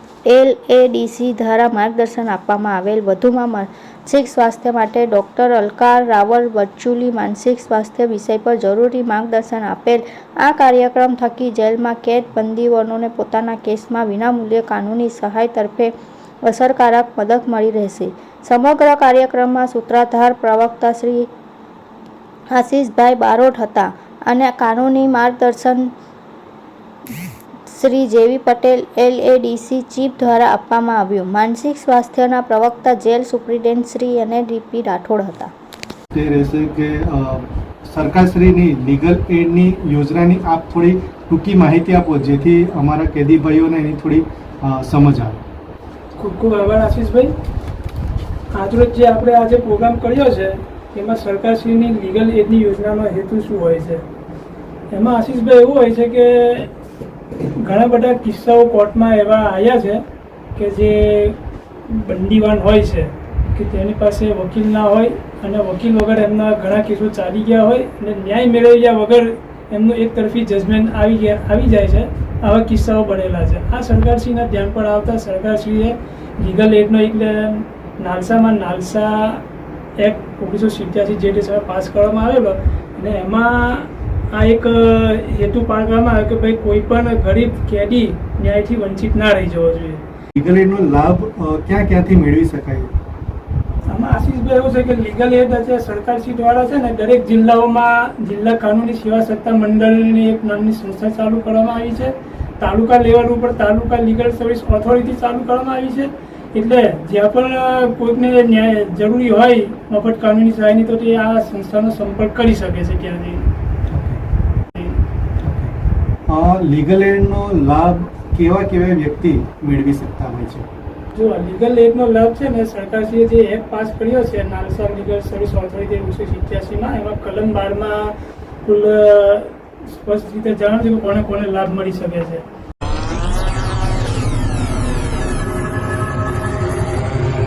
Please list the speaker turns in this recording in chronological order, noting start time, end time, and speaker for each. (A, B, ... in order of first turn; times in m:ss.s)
0:00.3-0:15.9 A
0:16.4-0:21.3 A
0:22.5-0:25.9 A
0:27.7-0:35.5 A
0:36.1-0:45.4 B
0:46.2-0:47.3 C
0:48.5-0:54.0 C
0:54.9-0:56.7 C
0:57.6-1:00.0 C
1:00.6-1:19.4 C
1:20.0-1:30.0 C
1:30.4-1:32.9 B
1:33.9-1:53.5 C
1:53.9-1:54.2 B
1:55.4-1:55.7 B
1:56.3-2:00.7 B
2:01.1-2:12.4 C